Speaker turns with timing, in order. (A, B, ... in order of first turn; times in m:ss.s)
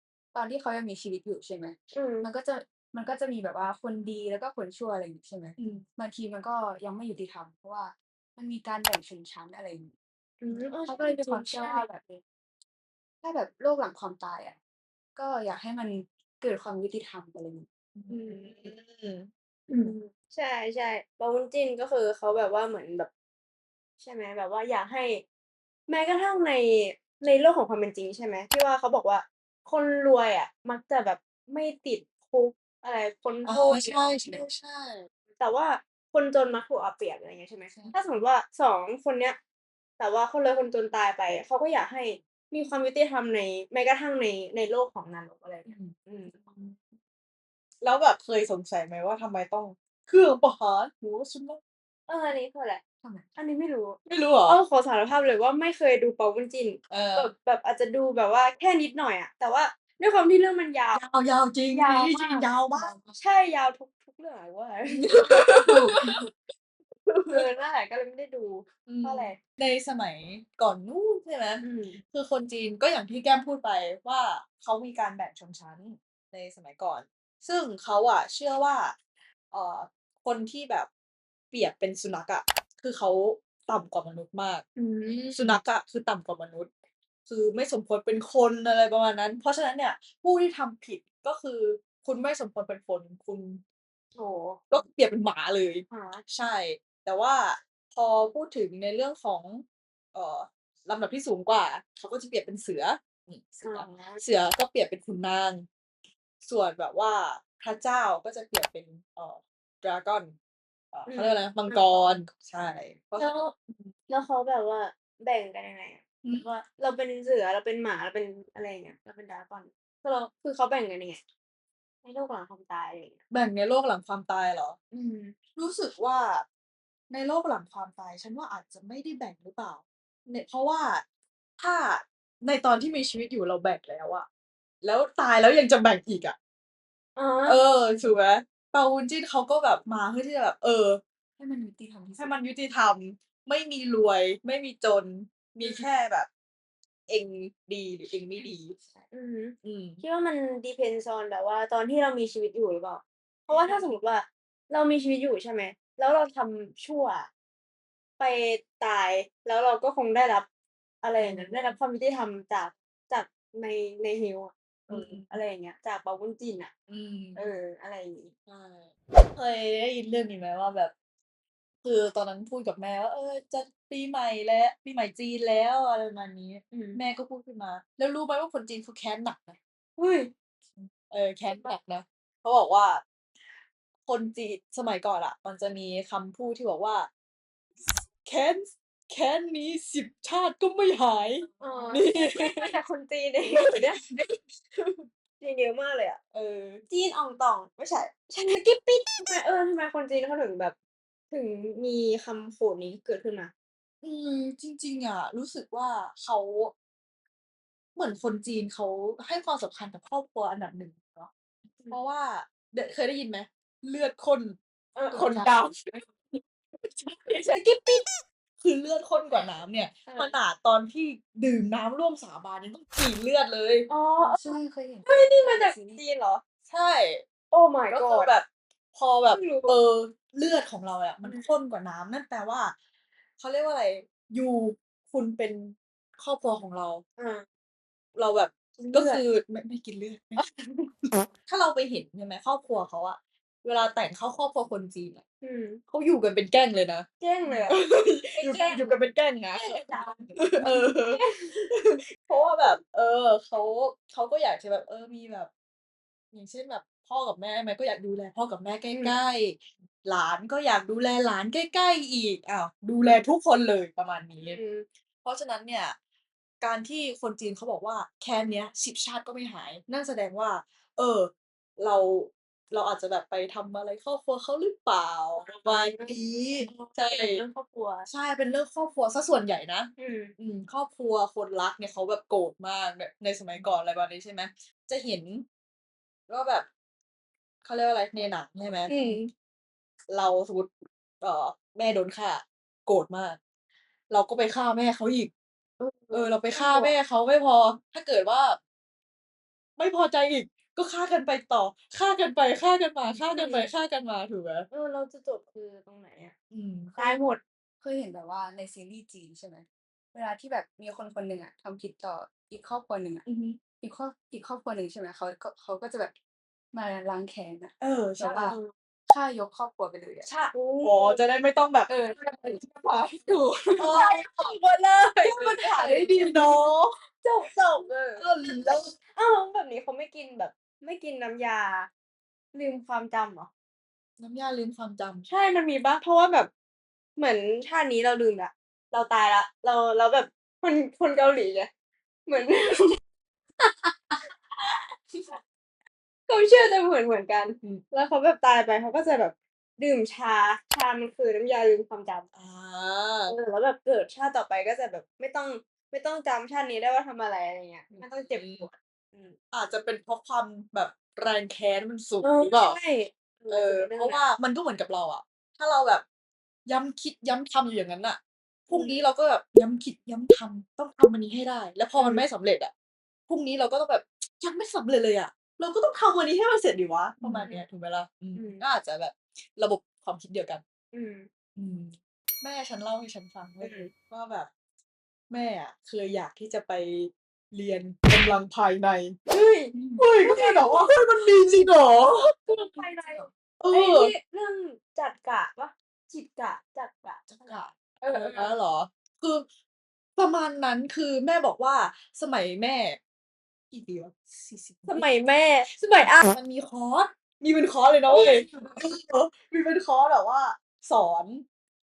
0:00.3-0:09.9 A
0:01.9-0:02.3 B
0:05.6-0:05.8 C
0:10.4-0:11.8 B
0:10.6-0:12.2 A
0:13.2-0:14.6 A
0:15.1-0:17.7 A
0:17.9-0:19.9 C
0:18.1-0:18.7 B
0:19.7-0:23.1 B
0:24.0-0:25.2 B
0:25.9-0:34.4 B
0:33.4-0:35.0 C
0:35.4-0:39.4 B
0:40.0-0:46.3 B
0:45.7-0:45.9 A
0:47.8-0:51.6 C
0:52.1-0:52.8 B
0:53.0-0:53.3 A
0:53.3-1:01.0 B
0:54.0-0:54.6 C
0:56.9-0:57.3 C
1:00.9-1:02.9 C
1:01.7-1:02.5 B
1:02.7-1:03.2 A
1:03.1-1:06.2 B
1:05.2-1:06.1 C
1:07.1-1:07.4 C
1:07.3-1:09.4 B
1:08.9-1:19.0 C
1:11.6-1:12.0 B
1:19.5-1:20.9 C
1:21.5-1:24.6 C
1:24.8-1:25.6 B
1:25.3-1:26.7 C
1:27.3-1:33.6 C
1:34.2-1:34.6 B
1:34.7-1:45.7 C
1:35.9-1:36.2 B
1:43.6-1:44.2 B
1:46.4-1:50.3 C
1:50.9-1:53.9 C
1:51.1-1:52.2 B
1:53.2-1:53.5 B
1:54.1-2:01.2 B
2:02.0-2:03.2 B
2:03.3-2:04.8 C
2:04.9-2:05.3 B
2:05.6-2:06.4 C
2:07.1-2:11.0 C
2:11.6-2:14.2 C
2:14.8-2:16.4 C
2:17.2-2:17.6 B
2:17.4-2:21.0 C
2:21.4-2:22.3 A
2:22.2-2:26.3 C
2:27.1-2:28.8 C
2:28.4-2:29.1 A
2:29.1-2:37.3 B
2:29.6-2:30.0 C
2:33.5-2:33.8 C
2:38.2-2:40.5 B
2:41.0-2:46.7 B
2:41.2-2:41.7 C
2:44.9-2:45.3 C
2:46.9-2:47.4 C
2:47.3-2:48.3 B
2:48.5-2:50.9 C
2:51.8-2:59.6 C
2:56.7-2:57.0 B
3:00.0-3:00.3 B
3:00.8-3:03.0 C
3:04.1-3:07.1 C
3:08.2-3:12.7 C
3:11.6-3:14.3 B
3:13.4-3:13.9 C
3:14.8-3:15.1 C
3:15.4-3:16.2 B
3:16.3-3:16.8 C
3:16.9-3:20.7 B
3:21.3-3:23.5 B
3:24.0-3:26.7 C
3:27.9-3:31.3 C
3:31.9-3:34.6 C
3:35.0-3:35.7 B
3:35.1-3:35.9 C
3:37.0-3:43.9 C
3:40.1-3:40.3 B
3:43.9-3:44.5 B
3:44.2-3:46.0 A
3:45.0-3:46.4 B
3:46.7-3:47.2 C
3:47.5-3:48.3 B
3:47.9-3:52.7 C
3:49.3-3:49.8 B
3:51.2-3:51.5 B
3:53.4-3:57.0 C
3:57.2-3:57.4 B
3:58.1-4:00.4 C
3:58.8-3:59.2 B
4:00.4-4:00.9 B
4:01.4-4:05.2 C
4:05.4-4:05.8 B
4:05.9-4:15.5 C
4:07.2-4:07.8 B
4:08.4-4:08.9 B
4:09.5-4:11.7 B
4:16.3-4:24.6 C
4:18.9-4:19.2 B
4:24.4-4:24.8 B
4:25.2-4:26.0 C
4:26.6-4:37.4 C
4:35.4-4:38.1 B
4:38.0-4:45.4 C
4:40.0-4:40.3 B
4:46.3-4:46.7 C
4:47.6-4:49.2 C
4:48.9-4:49.2 B
4:50.1-4:53.4 C
4:54.1-4:55.3 C
4:55.8-4:56.9 B
4:56.1-4:58.6 C
4:59.8-5:04.7 C
5:03.3-5:03.7 B
5:04.7-5:06.3 B
5:06.5-5:07.0 C
5:07.0-5:07.4 B
5:07.8-5:13.2 A
5:13.2-5:13.6 C
5:13.8-5:16.1 A
5:16.7-5:18.6 A
5:17.8-5:18.6 C
5:18.3-5:18.7 B
5:19.1-5:20.3 A
5:20.2-5:21.9 C
5:20.5-5:21.2 B
5:21.9-5:22.6 A
5:22.2-5:22.6 B
5:23.2-5:23.9 A
5:23.4-5:24.3 B
5:23.8-5:24.6 C
5:25.0-5:26.5 B
5:25.2-5:27.0 C
5:27.2-5:28.5 B
5:28.2-5:28.9 C
5:29.1-5:31.9 B
5:32.5-5:33.5 B
5:34.2-5:35.3 C
5:35.3-5:36.5 B
5:37.2-5:41.7 B
5:42.3-5:43.0 B
5:43.6-5:45.4 B
5:46.3-5:52.3 B
5:52.3-5:53.4 C
5:53.3-5:59.4 B
5:57.9-5:58.7 C
5:59.5-6:02.8 C
6:02.2-6:04.3 B
6:03.5-6:06.0 C
6:06.6-6:12.7 C
6:08.7-6:09.0 B
6:12.0-6:12.2 B
6:13.3-6:20.6 C
6:17.2-6:17.6 B
6:18.3-6:18.6 B
6:20.9-6:21.3 B
6:21.6-6:24.5 C
6:23.6-6:23.9 B
6:25.3-6:29.2 C
6:29.3-6:31.2 B
6:29.7-6:32.3 C
6:32.4-6:38.5 B
6:33.6-6:34.1 C
6:37.3-6:39.4 C
6:40.2-6:43.0 C
6:43.7-6:45.0 C
6:44.9-6:46.3 B
6:46.0-6:51.4 C
6:48.1-6:48.7 B